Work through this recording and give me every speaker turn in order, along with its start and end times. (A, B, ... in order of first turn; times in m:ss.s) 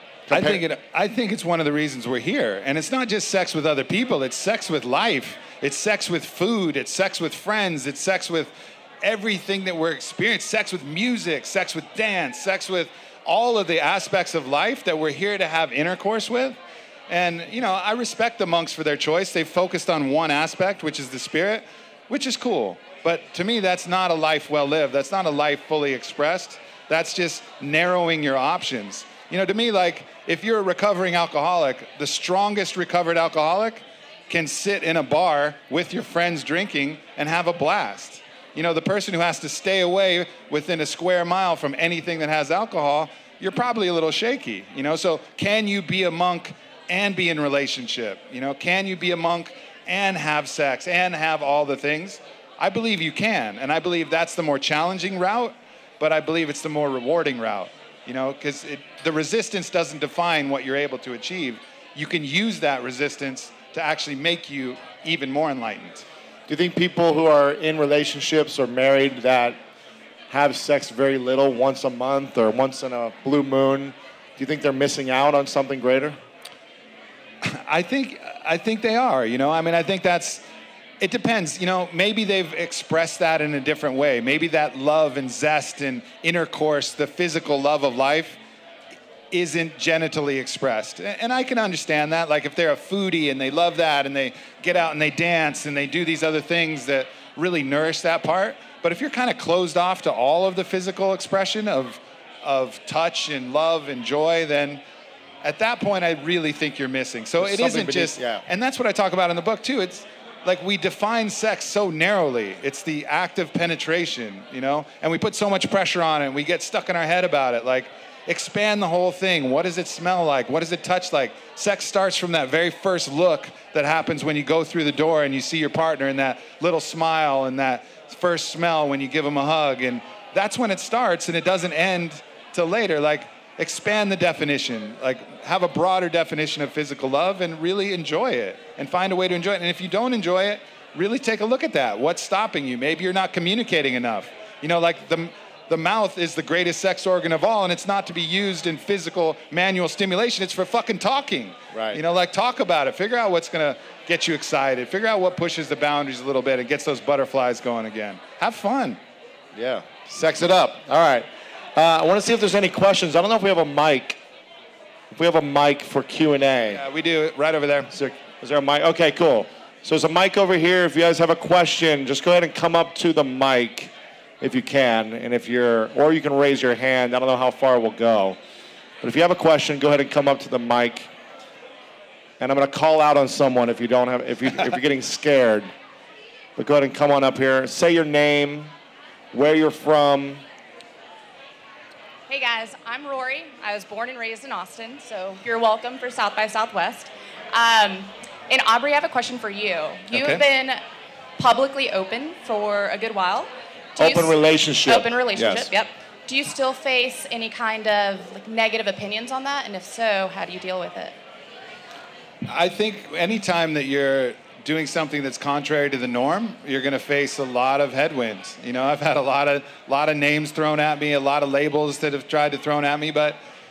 0:00.3-0:00.6 A
0:00.3-0:16.6 B
0:17.1-1:06.0 B
1:06.5-1:09.6 A
1:10.3-1:16.2 A
1:17.4-1:20.4 B
1:21.0-1:28.4 B
1:29.3-1:44.8 B
1:45.4-2:39.0 B
1:47.4-1:48.4 A
2:31.7-2:32.0 A
2:39.5-2:44.2 A
2:45.1-2:46.8 A
2:46.7-2:47.9 B
2:47.9-2:58.4 A
2:59.0-3:01.1 A
3:02.4-3:05.7 A
3:06.6-3:08.7 A
3:09.3-3:10.4 A
3:12.3-3:20.8 C
3:20.1-3:20.4 B
3:21.4-3:31.1 C
3:24.0-3:25.7 A
3:32.5-3:43.4 B